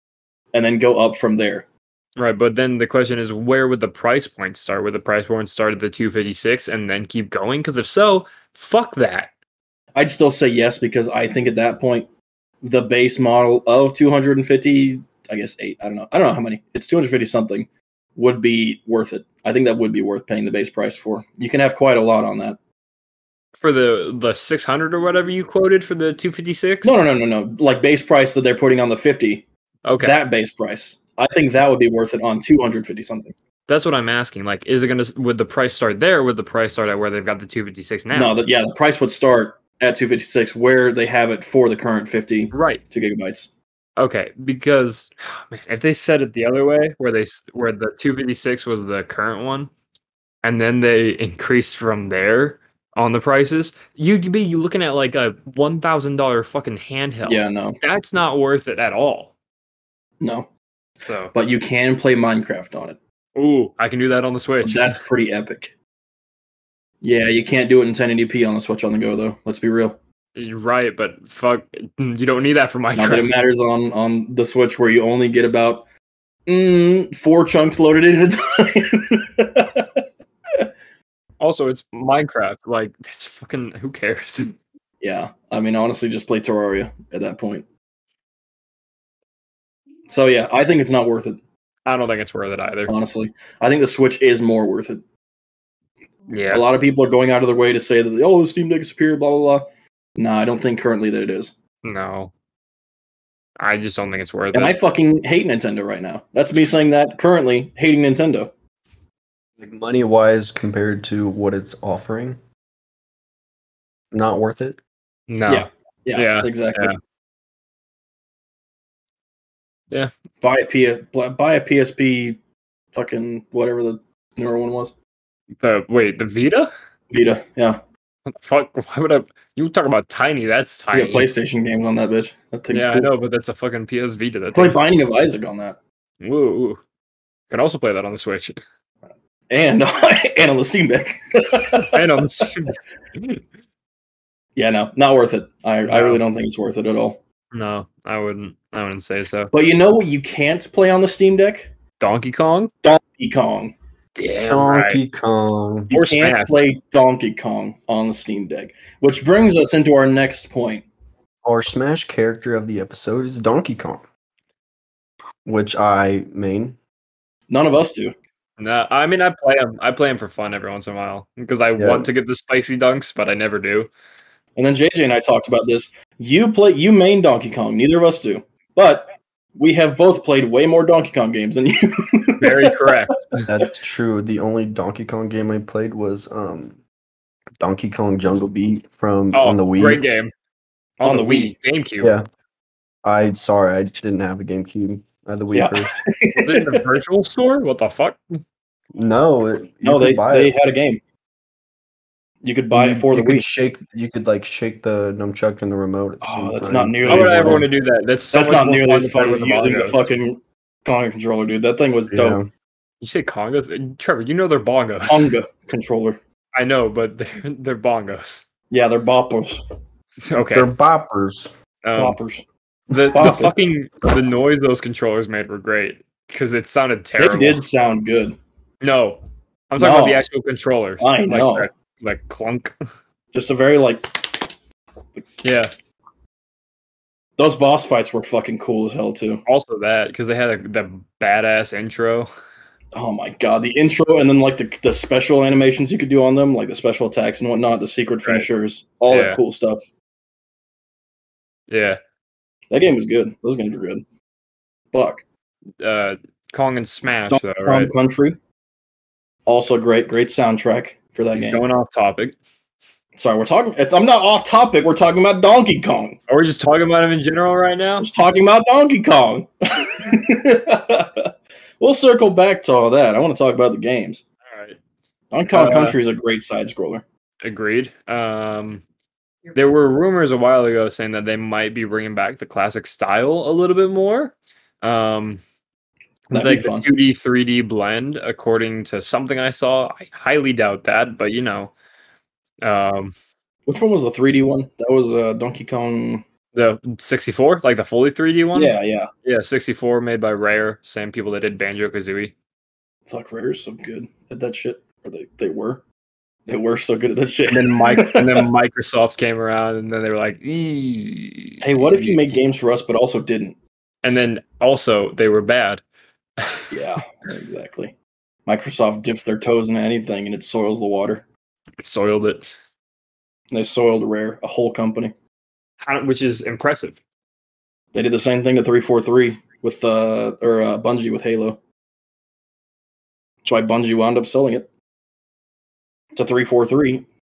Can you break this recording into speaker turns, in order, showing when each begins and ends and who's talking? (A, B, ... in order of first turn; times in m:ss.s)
0:00.5-0:01.7 A
0:02.2-0:09.3 B
0:10.0-0:12.1 A
0:12.6-0:22.6 A
0:23.6-0:27.0 B
0:26.8-0:29.5 A
0:29.8-0:30.2 B
0:30.0-0:33.4 A
0:33.7-0:38.3 B
0:38.1-0:43.5 A
0:42.5-0:42.8 B
0:44.0-0:49.7 B
0:50.4-0:59.3 B
0:57.2-0:57.8 A
1:00.2-1:00.5 A
1:01.0-1:01.3 B
1:01.3-1:03.0 A
1:03.4-1:05.0 B
1:04.6-1:05.7 A
1:07.0-1:10.0 A
1:10.4-1:13.3 B
1:13.0-1:15.9 A
1:16.5-1:20.0 A
1:21.4-1:24.6 B
1:25.0-1:27.7 A
1:30.1-1:31.4 A
1:31.9-1:32.9 B
1:32.9-1:35.0 A
1:36.3-1:36.7 B
1:36.5-1:39.7 A
1:40.2-1:41.6 A
1:41.8-1:42.3 B
1:43.6-1:44.8 B
1:44.5-1:48.5 A
1:49.6-1:52.4 C
1:54.1-1:54.8 C
1:55.3-1:57.0 B
1:55.5-1:56.9 A
2:00.4-2:02.4 A
2:02.9-2:04.9 A
2:05.6-2:06.7 B
2:07.1-2:07.8 A
2:08.3-2:11.3 B
2:10.9-2:13.1 A
2:12.7-2:14.8 B
2:14.5-2:15.8 A
2:16.2-2:16.8 B
2:17.5-2:18.6 B
2:19.5-2:22.4 A
2:21.8-2:23.4 B
2:24.6-2:27.2 A
2:25.9-2:26.2 B
2:27.5-2:29.5 B
2:29.5-2:31.7 A
2:32.0-2:32.7 B
2:32.8-2:33.8 A
2:34.2-2:35.0 B
2:34.5-2:35.9 C
2:35.9-2:40.9 A
2:35.9-2:36.7 B
2:41.4-2:44.0 C
2:45.4-2:46.8 C
2:47.5-2:48.2 A
2:48.6-2:53.9 B
2:51.8-2:52.1 C
2:54.6-3:02.8 A
3:02.4-3:03.5 B
3:03.5-3:06.8 C
3:07.6-3:10.0 C
3:09.3-3:10.3 B
3:11.0-3:12.2 B
3:11.0-3:11.5 A
3:12.0-3:12.3 C
3:13.0-3:16.0 C
3:15.5-3:16.8 A
3:16.4-3:18.2 B
3:18.9-3:20.5 C
3:19.8-3:21.0 A
3:22.4-3:23.5 A
3:22.7-3:27.7 C
3:26.2-3:27.7 A
3:27.1-3:30.1 B
3:28.3-3:32.4 A
3:32.1-3:32.5 C
3:33.0-3:35.3 B
3:35.1-3:36.2 A
3:36.6-3:38.5 B
3:38.7-3:39.6 A
3:40.2-3:40.7 B
3:40.4-3:41.5 C
3:41.8-3:42.2 B
3:42.0-3:42.4 A
3:42.9-3:47.6 B
3:43.1-3:43.5 A
3:47.2-3:48.4 A
3:48.8-3:52.7 B
3:49.8-3:50.2 A
3:51.0-3:51.7 A
3:53.3-3:54.5 A
3:55.4-3:55.7 B
3:57.4-3:59.4 A
3:59.5-4:02.3 B
4:02.9-4:09.9 A
4:09.1-4:09.4 B
4:11.7-4:12.0 B
4:12.7-4:14.0 A
4:14.9-4:15.2 A
4:15.8-4:17.9 B
4:17.3-4:18.4 A
4:19.5-4:21.6 A
4:21.4-4:22.4 B
4:23.2-4:26.2 A
4:26.3-4:28.1 B
4:28.0-4:34.2 A
4:34.5-4:34.8 B
4:35.3-4:37.0 A
4:35.5-4:36.0 B
4:37.4-4:38.8 B
4:39.5-4:45.4 B
4:46.3-4:46.9 A
4:46.3-4:51.7 B
4:52.6-4:53.1 B
4:53.7-4:56.2 A
4:56.5-5:02.3 B
4:58.5-4:59.1 A
5:03.1-5:05.8 A
5:06.5-5:08.4 A
5:07.5-5:12.4 B
5:11.6-5:13.6 A
5:14.0-5:15.8 B
5:16.4-5:16.7 B
5:16.7-5:18.0 A
5:18.5-5:21.2 A
5:21.8-5:22.5 B
5:23.5-5:25.2 A
5:25.8-5:27.0 B
5:27.9-5:31.6 A
5:33.4-5:34.7 A
5:36.2-5:37.1 A